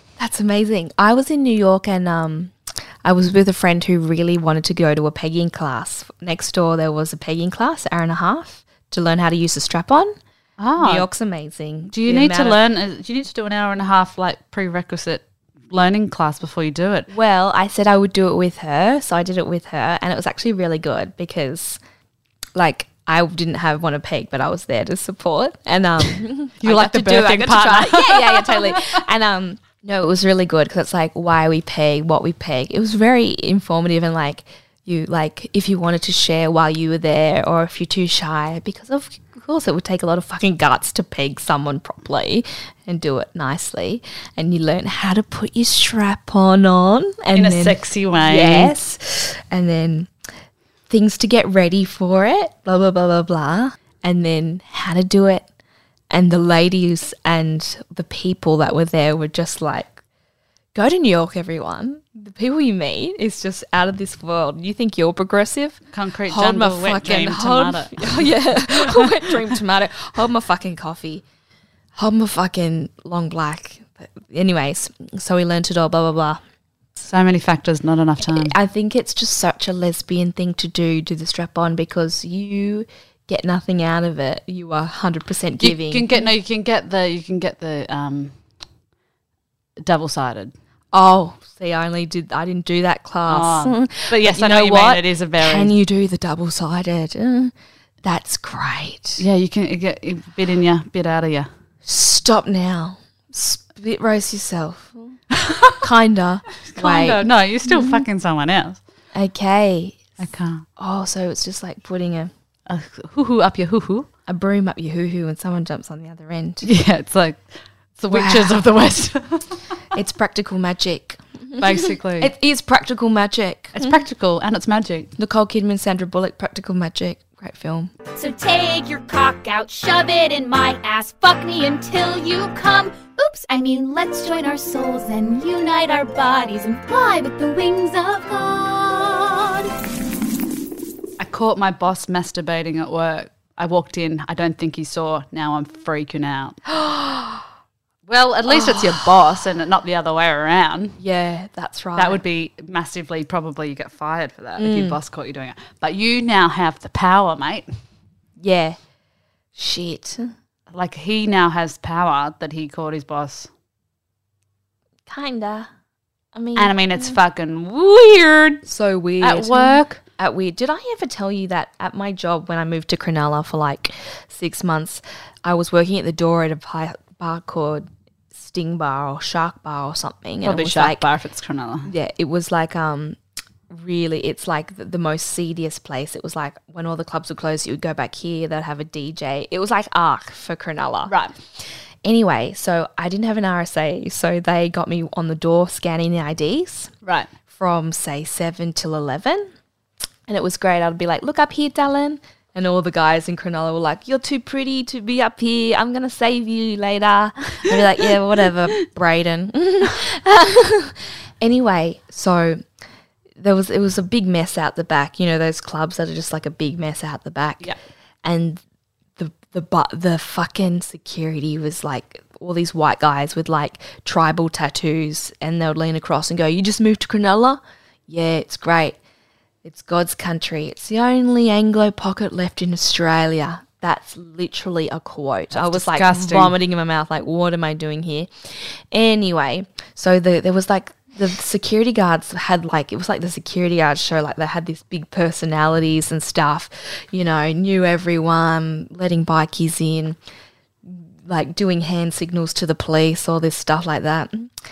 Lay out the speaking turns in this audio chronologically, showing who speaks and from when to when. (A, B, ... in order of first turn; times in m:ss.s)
0:00.2-0:10.1 A
0:10.6-0:11.1 B
0:10.8-0:12.6 A
0:11.9-0:17.1 B
0:17.1-0:21.8 A
0:22.5-0:50.1 A
0:26.6-0:28.9 B
0:47.3-0:48.7 B
0:50.9-0:55.5 A
0:56.1-1:00.0 A
1:00.7-1:11.2 A
1:05.9-1:09.2 B
1:11.9-1:16.4 A
1:17.0-1:18.5 B
1:18.2-1:26.2 A
1:25.6-1:28.3 B
1:29.8-1:30.5 B
1:30.9-1:37.5 A
1:33.3-1:35.7 B
1:38.0-1:39.2 A
1:39.2-1:41.5 B
1:41.8-1:45.2 A
1:45.3-1:45.8 B
1:45.8-1:48.0 A
1:46.7-1:48.8 B
1:49.1-1:50.0 A
1:50.2-1:50.6 B
1:50.8-1:52.3 A
1:52.7-1:54.1 B
1:54.3-1:56.7 A
1:56.6-1:57.4 B
1:58.0-1:59.6 B
1:58.1-1:58.6 A
1:59.9-2:04.0 A
2:01.6-2:02.3 B
2:03.7-2:05.1 B
2:05.2-2:07.9 A
2:08.2-2:19.7 C
2:21.2-2:26.6 B
2:26.7-2:27.4 A
2:28.1-2:31.0 B
2:28.5-2:29.0 A
2:31.0-2:32.2 A
2:32.0-2:37.7 B
2:34.6-2:35.0 A
2:38.4-2:38.8 A
2:39.5-2:40.3 A
2:40.7-2:43.5 B
2:45.1-2:45.7 A
2:46.3-2:47.2 A
2:46.6-2:48.6 B
2:48.6-3:01.1 A
2:49.2-2:50.0 B
3:00.4-3:01.9 B
3:01.8-3:03.2 A
3:03.7-3:11.1 A
3:11.1-3:11.3 B
3:12.0-3:16.9 A
3:17.0-3:17.3 B
3:17.5-3:19.5 A
3:20.3-3:32.6 A
3:33.4-3:37.7 A
3:38.2-3:38.6 A
3:39.2-3:49.0 A
3:49.6-4:10.2 A
3:55.5-3:56.6 B
4:10.8-4:14.5 A